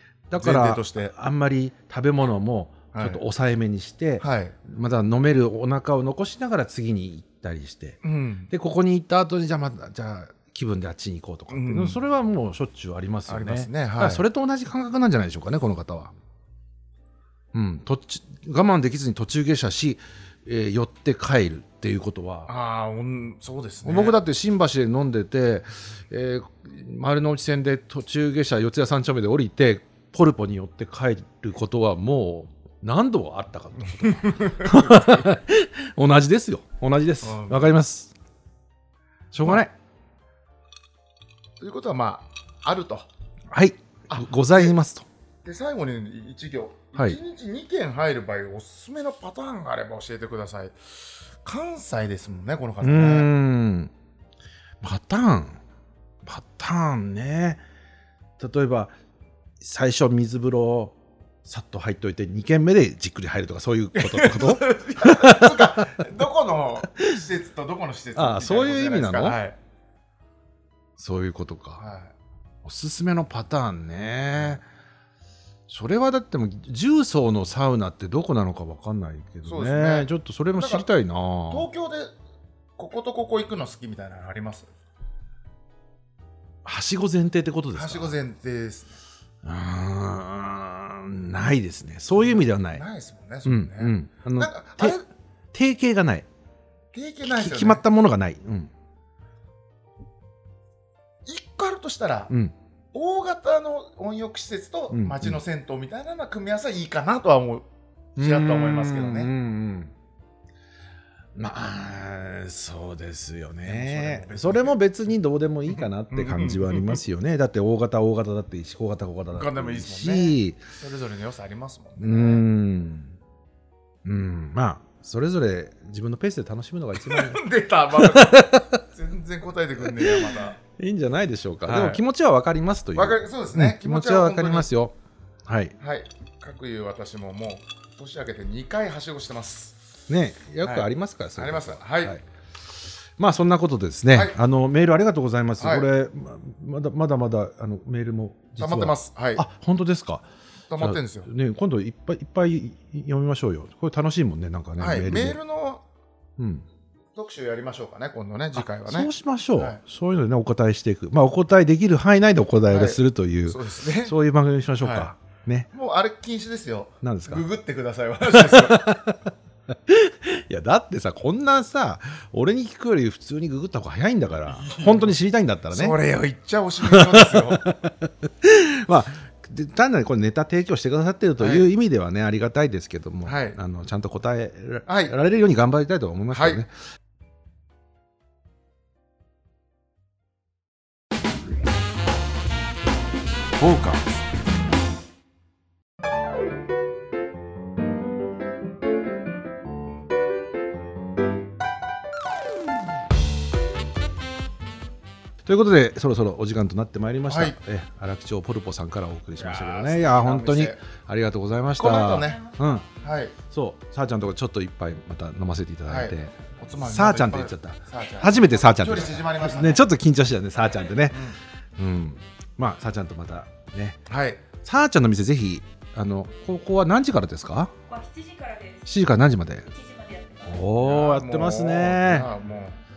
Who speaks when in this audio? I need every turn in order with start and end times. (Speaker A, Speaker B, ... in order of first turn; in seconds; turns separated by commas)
Speaker A: 0.3-8.0, Speaker B: 0.4-1.1, Speaker B: 2.9-3.2, Speaker B: 4.2-4.6, Speaker B: 8.0-8.5, Speaker A: 8.5-16.1, Speaker B: 11.5-12.0, Speaker B: 13.3-14.2, Speaker A: 17.5-22.5, Speaker B: 22.5-24.2, Speaker A: 23.8-38.1, Speaker B: 33.8-35.3, Speaker B: 37.2-37.7, Speaker A: 39.3-39.7, Speaker B: 41.6-43.1, Speaker A: 43.5-45.0, Speaker B: 44.1-44.8, Speaker B: 45.4-53.3, Speaker A: 52.8-53.9, Speaker A: 54.8-55.6, Speaker A: 56.2-57.6, Speaker A: 58.4-58.9, Speaker A: 59.6-66.0, Speaker B: 63.9-69.6, Speaker A: 68.1-69.4, Speaker A: 71.0-71.8, Speaker B: 71.8-72.1, Speaker A: 72.6-74.6, Speaker A: 75.7-81.7, Speaker B: 79.4-80.9, Speaker B: 81.5-82.1, Speaker B: 82.8-84.7, Speaker A: 86.6-88.2, Speaker B: 87.7-89.0, Speaker A: 89.4-92.8, Speaker B: 92.1-95.1, Speaker A: 93.4-95.0, Speaker A: 95.5-96.3, Speaker B: 96.9-97.8, Speaker A: 97.2-98.7, Speaker B: 101.2-102.3, Speaker A: 102.3-102.5, Speaker B: 102.9-107.7, Speaker A: 104.9-105.4, Speaker A: 108.2-109.9, Speaker B: 108.2-109.3, Speaker A: 111.3-120.6, Speaker B: 113.6-114.8, Speaker B: 115.7-117.0, Speaker B: 119.3-122.5, Speaker A: 122.0-123.1, Speaker A: 124.0-128.8, Speaker B: 127.0-130.6, Speaker A: 129.8-134.9, Speaker B: 131.7-132.0, Speaker B: 132.9-134.7, Speaker A: 135.4-135.8, Speaker B: 135.8-139.8, Speaker A: 140.1-150.2, Speaker B: 140.6-142.2, Speaker B: 145.6-145.9, Speaker B: 148.6-149.4, Speaker B: 150.7-151.3, Speaker A: 150.8-155.4, Speaker B: 154.8-155.8, Speaker A: 156.4-156.7, Speaker B: 157.1-159.8, Speaker A: 158.6-165.7, Speaker B: 162.7-164.1, Speaker B: 164.8-165.1, Speaker B: 165.7-169.0, Speaker A: 167.0-167.4, Speaker A: 168.3-175.9, Speaker B: 174.5-175.1, Speaker B: 175.7-177.7, Speaker A: 176.8-186.7, Speaker B: 181.4-181.7, Speaker B: 183.2-183.6, Speaker B: 184.8-185.1, Speaker B: 186.3-186.6, Speaker B: 193.6-194.2, Speaker A: 205.4-212.8, Speaker B: 207.3-207.6, Speaker B: 209.3-210.8, Speaker B: 211.8-213.3, Speaker C: 211.9-212.9, Speaker A: 213.4-224.0, Speaker B: 215.9-219.8, Speaker C: 220.6-221.0, Speaker B: 221.1-221.4, Speaker B: 224.1-224.4, Speaker A: 224.6-227.7, Speaker C: 227.9-229.0, Speaker A: 228.8-229.7, Speaker C: 229.6-230.7, Speaker A: 230.4-232.3, Speaker B: 230.8-232.8